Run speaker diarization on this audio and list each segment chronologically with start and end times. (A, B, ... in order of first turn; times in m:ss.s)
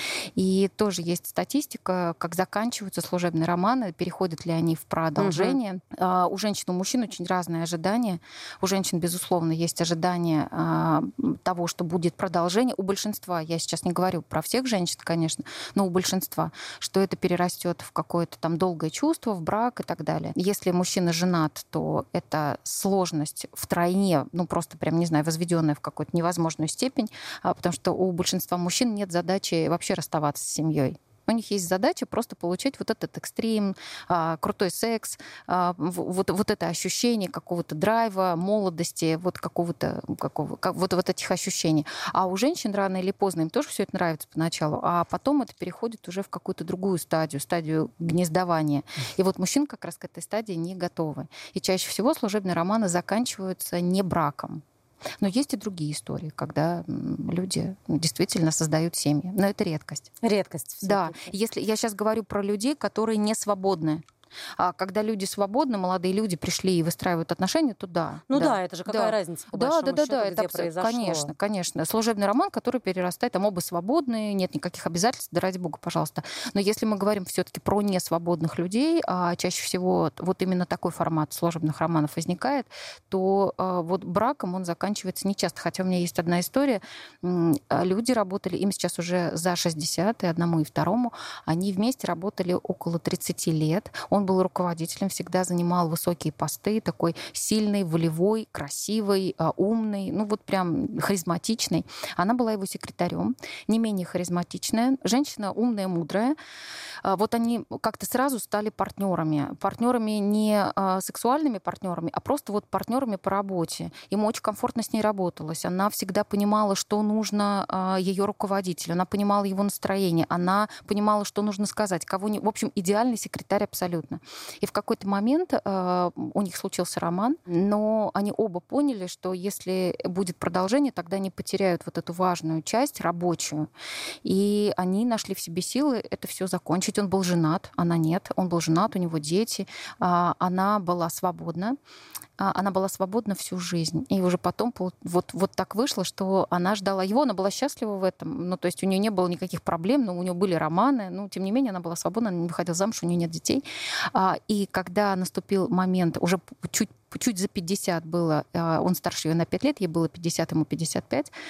0:00.4-0:54.6 A
0:05.2-0:05.6 B
0:55.2-1:00.1 A
1:00.2-1:01.3 B
1:00.8-1:04.0 A
1:04.6-1:46.4 A
1:08.3-1:11.3 B
1:47.0-2:13.7 A
2:14.2-2:21.8 A
2:22.4-2:41.3 A